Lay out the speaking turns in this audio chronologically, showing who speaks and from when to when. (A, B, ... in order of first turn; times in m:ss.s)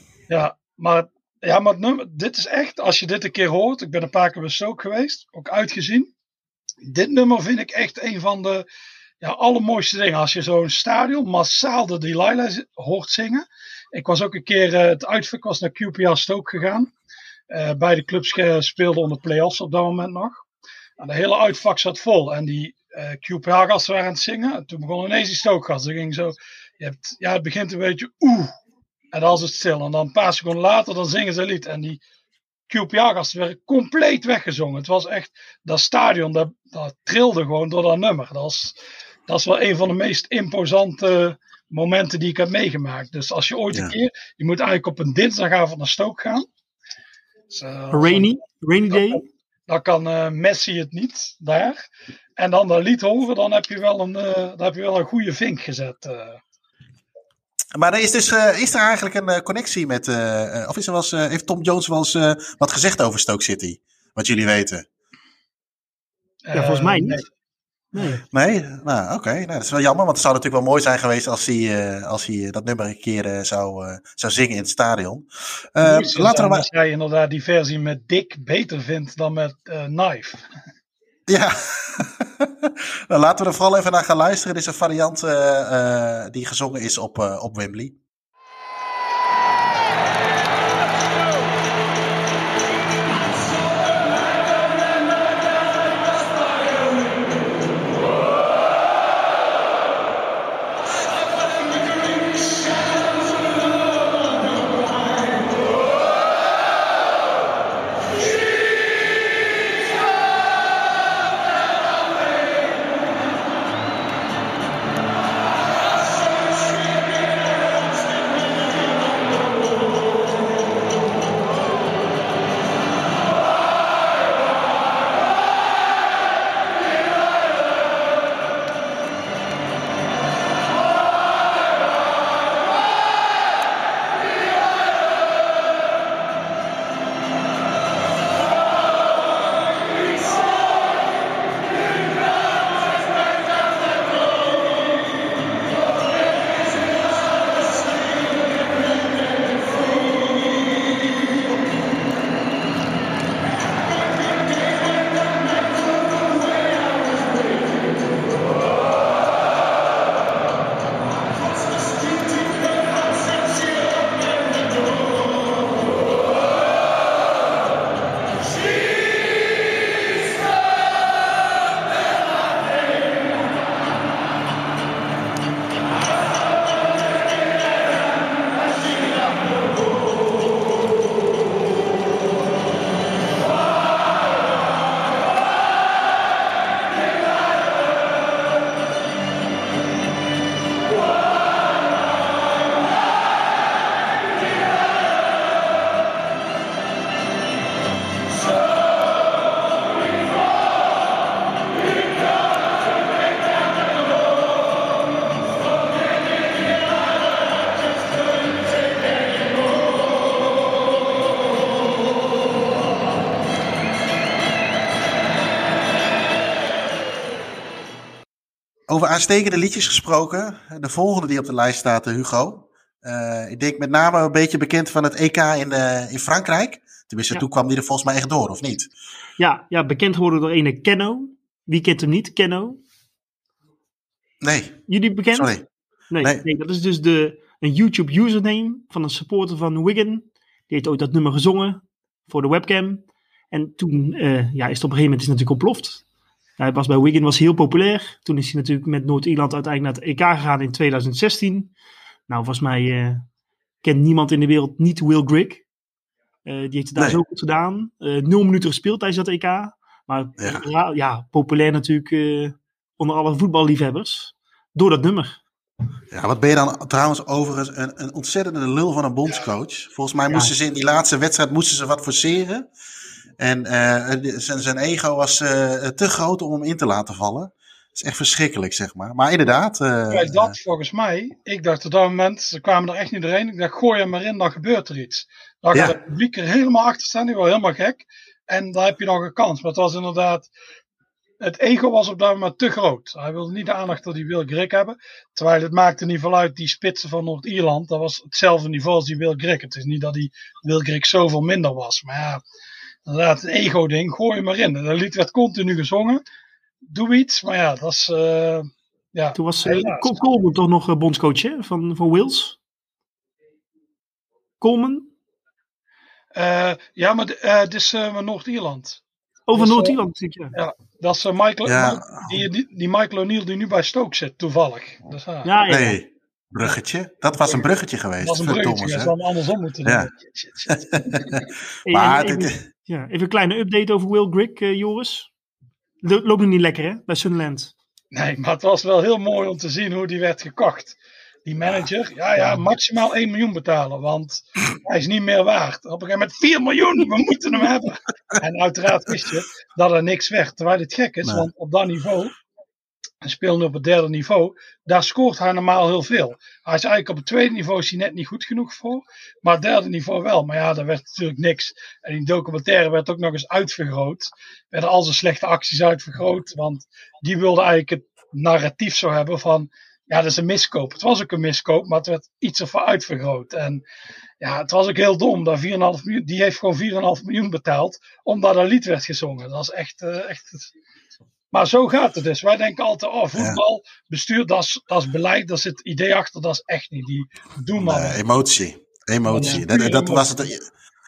0:00.3-0:06.1 A
0:06.8-0:08.7 A
0:09.2-0:16.9 A
0:17.5-0:20.4 A
0:21.0-0:28.5 A
0:29.1-0:32.0 A
0:32.7-0:38.8 A
0:39.3-0:46.5 A
0:47.5-0:48.3 A
0:47.9-0:49.2 B
0:48.9-0:51.8 A
0:52.4-0:56.4 A
0:57.8-1:04.9 C
1:06.5-1:07.3 A
1:06.5-1:07.2 B
1:07.9-1:08.2 B
1:08.3-1:16.6 C
1:15.8-1:20.4 A
1:21.3-1:28.0 C
3:38.9-3:48.9 C
3:49.4-3:52.8 B
3:54.4-3:54.8 C
3:54.9-3:55.5 B
3:55.3-3:55.7 C
3:56.1-4:06.0 B
4:06.6-4:11.7 B
4:12.3-4:13.2 B
4:13.8-4:15.6 B
4:16.4-4:25.4 B
4:20.4-4:20.6 C
4:26.1-4:32.7 C
4:33.4-4:40.6 C
4:40.1-4:50.5 A
4:51.4-5:02.4 A
5:03.1-5:06.2 A
5:06.8-5:10.2 A
5:09.4-5:12.6 B
5:14.6-5:15.1 B
5:16.4-5:19.0 A
5:19.5-5:20.6 B
5:19.5-5:20.0 A
5:20.5-5:25.5 A
5:21.7-5:22.2 C
5:25.4-5:26.0 B
5:25.7-5:29.1 C
5:28.2-5:31.4 A
5:30.7-5:32.6 C
5:31.9-5:35.3 B
5:36.0-5:37.7 B
5:38.1-5:52.4 A
5:53.2-6:13.8 A
6:14.4-6:20.7 A
6:21.5-6:28.2 A
6:27.8-6:30.6 C
6:29.3-6:30.3 A